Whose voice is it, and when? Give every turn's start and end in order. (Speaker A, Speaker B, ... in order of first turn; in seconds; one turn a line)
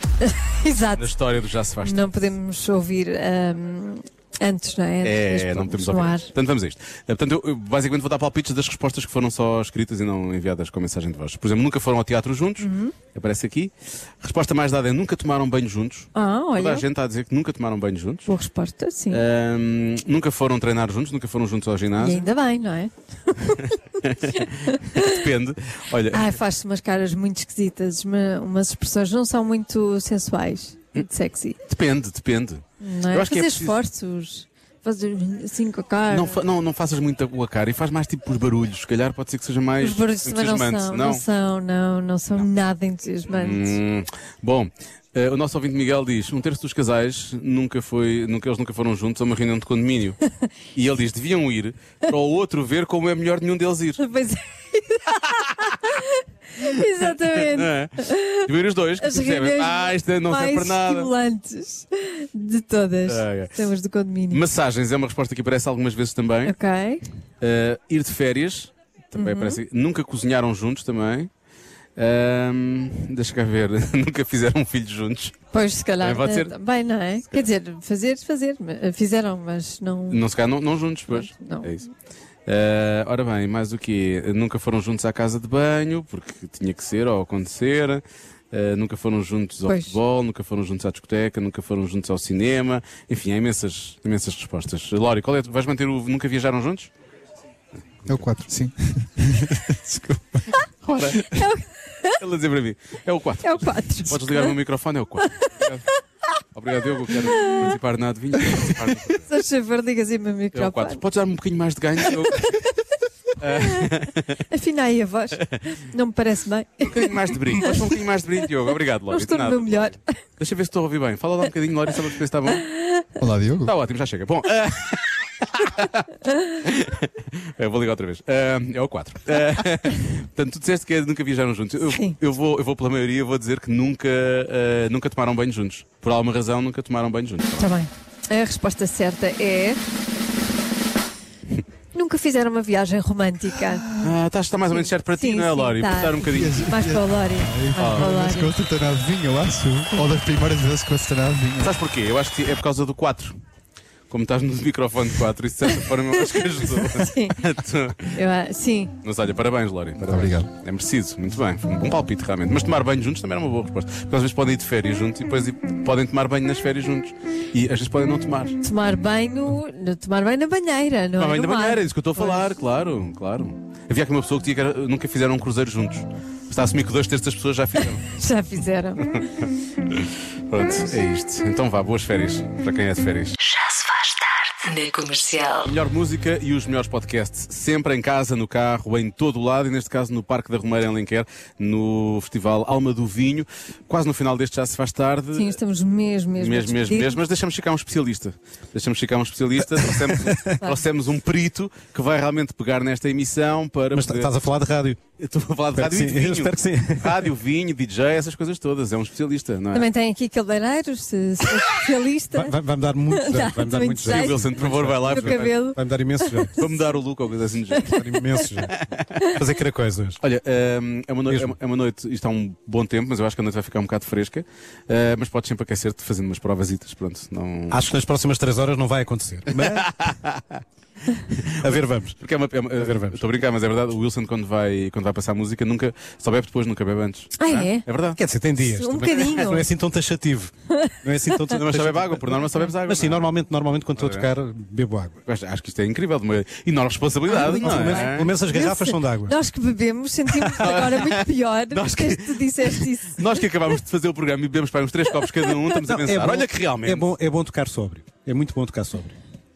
Speaker A: 0.2-1.1
Speaker B: 1.0-2.0
Speaker A: 1.8-6.3
Speaker B: 5.0-18.3
Speaker A: 12.6-12.9
Speaker A: 16.1-16.8
Speaker A: 18.3-19.2
Speaker B: 19.1-22.3
Speaker A: 22.0-23.8
Speaker B: 24.0-26.2
Speaker A: 24.3-25.2
Speaker A: 26.1-31.6
Speaker B: 31.7-33.8
Speaker A: 32.8-36.4
Speaker B: 36.1-41.2
Speaker A: 39.8-43.8
Speaker B: 43.3-50.2
Speaker B: 50.7-54.0
Speaker A: 54.0-58.5
Speaker B: 55.2-55.7
Speaker B: 57.2-61.1
Speaker A: 59.0-64.4
Speaker B: 63.1-63.5
Speaker B: 64.3-66.5
Speaker A: 66.4-67.0
Speaker B: 67.4-71.3
Speaker A: 69.2-69.6
Speaker B: 72.0-75.4
Speaker A: 75.5-80.2
Speaker B: 76.0-76.5
Speaker B: 80.1-81.9
Speaker A: 81.1-81.7
Speaker B: 82.5-96.9
Speaker A: 89.7-90.0
Speaker C: 98.0-100.4
Speaker B: 100.8-101.5
Speaker A: 101.2-102.1
Speaker B: 102.2-105.8
Speaker A: 103.4-104.6
Speaker B: 106.5-109.3
Speaker A: 107.3-107.7
Speaker A: 109.2-111.0
Speaker B: 110.5-112.5
Speaker A: 112.3-112.8
Speaker B: 113.4-114.4
Speaker A: 113.5-113.9
Speaker A: 114.5-117.9
Speaker B: 116.9-122.7
Speaker A: 119.1-120.1
Speaker A: 122.7-123.2
Speaker C: 123.2-123.7
Speaker B: 123.6-126.0
Speaker B: 126.6-137.7
Speaker A: 131.9-132.2
Speaker A: 137.6-139.8
Speaker A: 141.9-144.0
Speaker B: 144.0-146.8
Speaker A: 144.7-148.6
Speaker C: 146.3-151.7
Speaker B: 147.8-148.1
Speaker B: 151.6-153.4
Speaker B: 154.1-158.2
Speaker A: 156.8-157.4
Speaker A: 158.1-158.9
Speaker B: 159.0-168.6
Speaker C: 160.0-160.5
Speaker A: 168.6-172.5
Speaker B: 171.2-178.1
Speaker A: 178.1-179.4
Speaker B: 179.2-183.4
Speaker D: 183.4-185.7
Speaker B: 185.6-195.6
Speaker A: 195.3-197.2
Speaker B: 196.4-204.3
Speaker E: 203.9-205.0
Speaker B: 205.2-209.9
Speaker E: 205.7-207.3
Speaker A: 209.7-212.5
Speaker E: 212.3-216.6
Speaker A: 213.1-214.5
Speaker B: 214.0-215.6
Speaker A: 215.1-216.9
Speaker B: 216.6-218.0
Speaker A: 217.7-218.1
Speaker E: 217.8-220.2
Speaker B: 218.7-219.0
Speaker B: 220.2-227.8
Speaker E: 221.3-221.5
Speaker E: 227.7-230.2
Speaker B: 229.6-230.6
Speaker E: 231.4-232.2
Speaker B: 232.2-238.2
Speaker E: 232.7-233.2
Speaker A: 237.4-237.8
Speaker E: 238.1-245.2
Speaker A: 238.6-239.7
Speaker B: 239.2-239.5
Speaker A: 240.7-241.6
Speaker B: 241.5-243.3
Speaker B: 243.9-244.3
Speaker B: 245.2-248.4
Speaker A: 247.3-253.4
Speaker E: 247.3-249.4
Speaker B: 250.4-257.1
Speaker E: 255.8-259.1